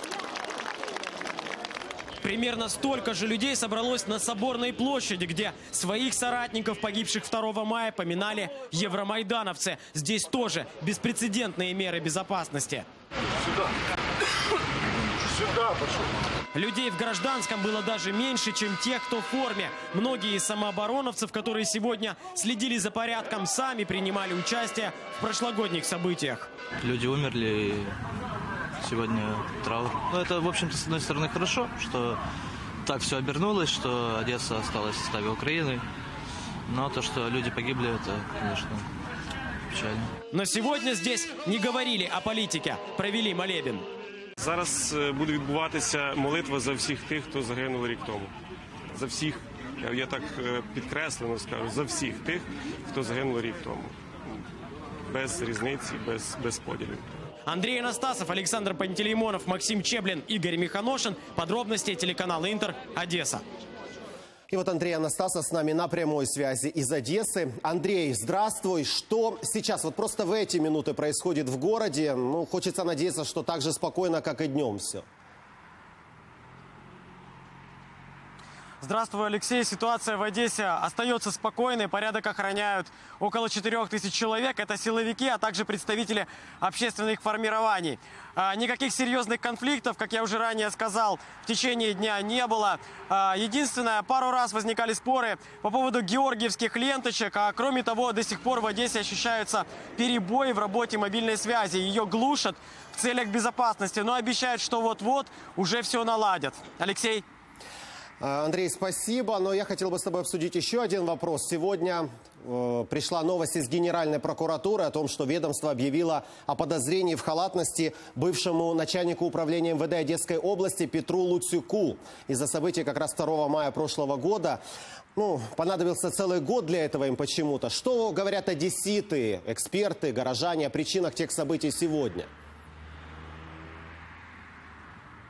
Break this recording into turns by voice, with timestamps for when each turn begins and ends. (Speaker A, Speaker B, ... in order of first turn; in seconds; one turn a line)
Speaker A: 2.2-12.8
Speaker A: 16.6-26.5
Speaker B: 26.8-28.0
Speaker B: 28.8-32.2
Speaker B: 32.9-35.9
Speaker B: 36.7-38.9
Speaker B: 39.7-40.1
Speaker A: 40.3-43.9
Speaker C: 44.4-48.3
Speaker C: 48.9-54.0
Speaker C: 55.1-57.1
Speaker A: 57.5-63.4
Speaker D: 64.5-75.1
Speaker A: 78.8-107.2
Speaker D: 108.2-124.6
Speaker D: 125.2-132.3